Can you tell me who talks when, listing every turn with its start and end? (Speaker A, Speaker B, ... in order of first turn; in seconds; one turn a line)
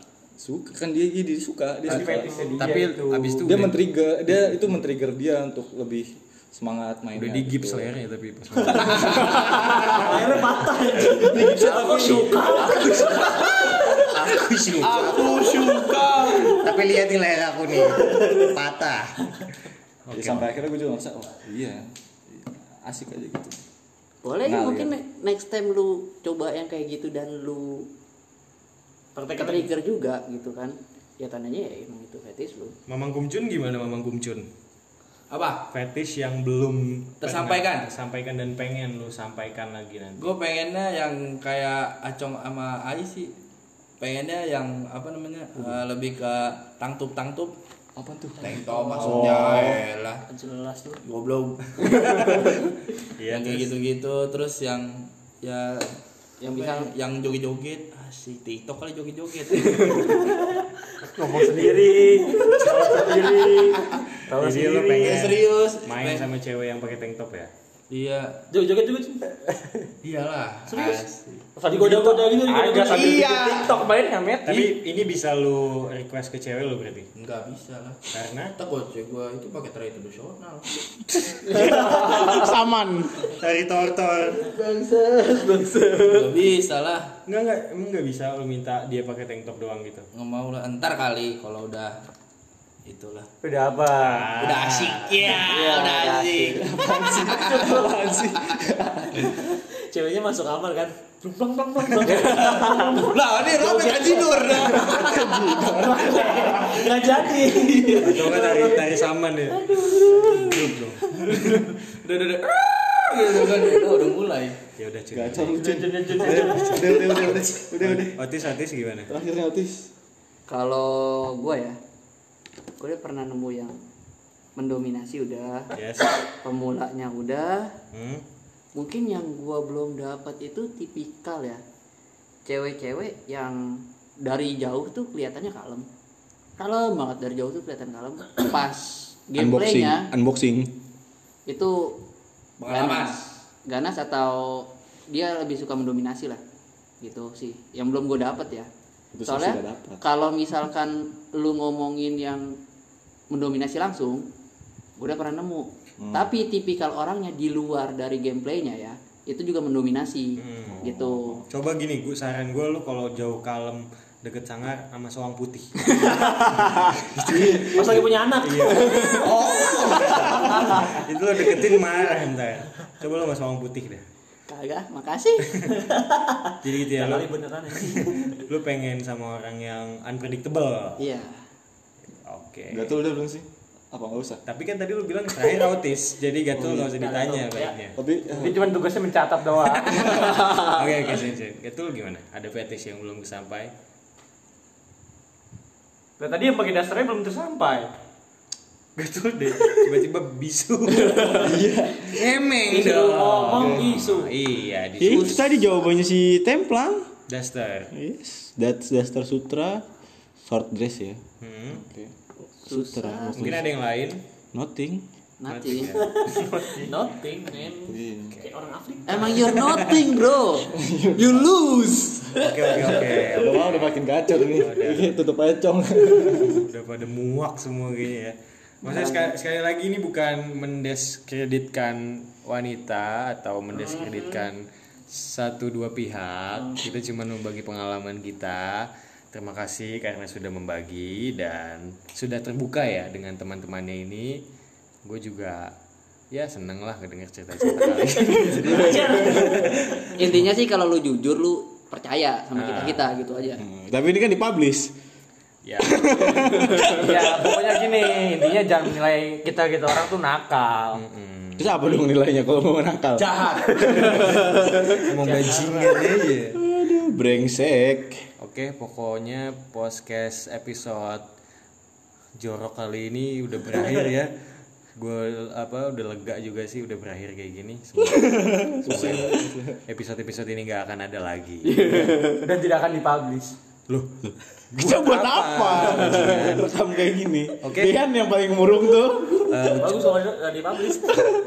Speaker A: 0.4-2.8
Speaker B: 1.9-3.4
Speaker C: 2.5-3.8
Speaker A: 3.4-7.9
Speaker C: 7.1-10.4
Speaker D: 8.9-13.7
Speaker A: 9.1-10.3
Speaker A: 11.0-12.8
Speaker E: 12.8-14.0
Speaker C: 14.0-19.3
Speaker E: 14.8-16.6
Speaker C: 20.1-20.5
Speaker A: 20.1-23.6
Speaker F: 24.2-27.9
Speaker A: 24.4-24.9
Speaker D: 29.1-29.7
Speaker F: 29.3-32.8
Speaker C: 32.9-34.5
Speaker E: 35.3-35.7
Speaker C: 35.7-40.3
Speaker E: 37.2-37.9
Speaker E: 40.2-43.4
Speaker E: 44.0-47.5
Speaker A: 48.0-49.4
Speaker E: 48.4-50.2
Speaker G: 49.0-49.8
Speaker D: 50.3-51.0
Speaker E: 51.0-52.6
Speaker C: 53.2-53.7
Speaker E: 53.2-60.1
Speaker F: 56.4-56.9
Speaker D: 60.0-60.4
Speaker C: 61.1-67.5
Speaker E: 62.5-63.0
Speaker D: 64.3-65.3
Speaker E: 65.0-66.3
Speaker E: 67.9-68.5
Speaker D: 68.5-69.2
Speaker E: 70.0-71.1
Speaker C: 70.7-71.1
Speaker D: 70.7-71.0
Speaker D: 71.6-73.7
Speaker B: 71.7-73.6
Speaker G: 72.5-74.7
Speaker C: 74.4-77.1
Speaker E: 77.2-82.2
Speaker C: 78.1-78.5
Speaker G: 81.2-83.2
Speaker D: 81.8-82.0
Speaker C: 83.3-84.5
Speaker E: 84.4-87.1
Speaker C: 87.3-90.1
Speaker E: 90.2-92.0
Speaker E: 92.8-93.3
Speaker C: 94.0-95.5
Speaker E: 94.4-98.6
Speaker F: 95.5-96.3
Speaker A: 95.5-96.0
Speaker A: 96.7-99.0
Speaker D: 96.8-98.4
Speaker D: 99.5-111.1
Speaker E: 102.0-105.7
Speaker A: 105.4-105.6
Speaker E: 107.5-108.5
Speaker C: 108.0-111.0
Speaker E: 111.2-114.6
Speaker C: 114.8-116.5
Speaker A: 115.1-118.2
Speaker D: 115.6-117.4
Speaker C: 117.8-119.1
Speaker A: 119.1-119.9
Speaker F: 120.5-121.8
Speaker F: 122.8-123.8
Speaker F: 124.6-125.7
Speaker C: 125.7-126.0
Speaker F: 126.4-127.7
Speaker C: 127.9-128.2
Speaker F: 128.8-131.6
Speaker F: 132.5-133.6
Speaker F: 134.2-135.9
Speaker F: 136.6-140.1
Speaker G: 139.4-140.8
Speaker F: 141.5-142.0
Speaker E: 142.6-143.3
Speaker F: 142.7-146.4
Speaker F: 147.0-148.7
Speaker G: 149.2-150.0
Speaker F: 149.2-152.6
Speaker A: 149.3-149.9
Speaker F: 153.3-154.3
Speaker F: 155.0-161.4
Speaker A: 156.0-156.3
Speaker C: 160.4-160.8
Speaker A: 160.7-161.4
Speaker C: 161.5-174.0
Speaker D: 166.0-166.3
Speaker D: 167.6-169.2
Speaker E: 169.2-170.8
Speaker D: 170.2-170.6
Speaker F: 174.5-175.6
Speaker D: 175.9-178.4
Speaker C: 176.6-181.0
Speaker F: 181.0-181.4
Speaker C: 182.2-183.0
Speaker A: 182.7-184.4
Speaker C: 184.5-188.0
Speaker A: 186.6-186.8
Speaker D: 186.9-187.8
Speaker A: 188.0-188.7
Speaker B: 188.3-190.0
Speaker A: 189.9-190.6
Speaker C: 189.9-193.7
Speaker B: 196.2-197.9
Speaker C: 199.0-205.8
Speaker A: 201.3-202.2
Speaker G: 201.4-202.2
Speaker D: 202.6-204.3
Speaker A: 203.6-203.8
Speaker G: 205.0-207.1
Speaker C: 207.3-207.9
Speaker G: 207.9-209.8
Speaker G: 210.4-211.2
Speaker C: 211.4-211.8
Speaker A: 211.7-212.1
Speaker G: 212.6-213.7
Speaker F: 212.7-213.6
Speaker C: 213.3-214.2
Speaker G: 214.5-215.1
Speaker F: 215.4-216.1
Speaker C: 215.5-216.9
Speaker D: 216.1-219.8
Speaker A: 217.8-218.4
Speaker F: 219.1-220.7
Speaker A: 220.7-221.5
Speaker E: 221.9-222.2
Speaker C: 222.4-225.2
Speaker A: 222.7-226.7
Speaker C: 226.4-244.4
Speaker F: 228.8-229.3
Speaker D: 233.7-234.5
Speaker C: 245.0-245.7
Speaker C: 246.3-249.4
Speaker D: 247.8-249.9
Speaker A: 248.3-249.1
Speaker G: 248.6-249.5
Speaker F: 250.1-253.6
Speaker C: 252.6-253.1
Speaker G: 253.6-254.9
Speaker C: 255.7-257.2
Speaker G: 255.9-258.7
Speaker B: 257.0-261.0
Speaker C: 260.9-262.1
Speaker G: 261.6-265.1
Speaker C: 265.0-266.6
Speaker D: 265.1-266.0
Speaker G: 266.6-268.3
Speaker C: 268.4-271.2
Speaker C: 272.4-274.3
Speaker D: 273.7-274.1
Speaker C: 275.0-282.1
Speaker G: 278.0-278.8
Speaker A: 278.8-279.8
Speaker G: 281.6-282.6
Speaker B: 282.5-283.6
Speaker C: 283.9-286.7
Speaker G: 284.7-289.9
Speaker C: 287.6-288.0
Speaker C: 289.5-290.2
Speaker D: 289.8-291.3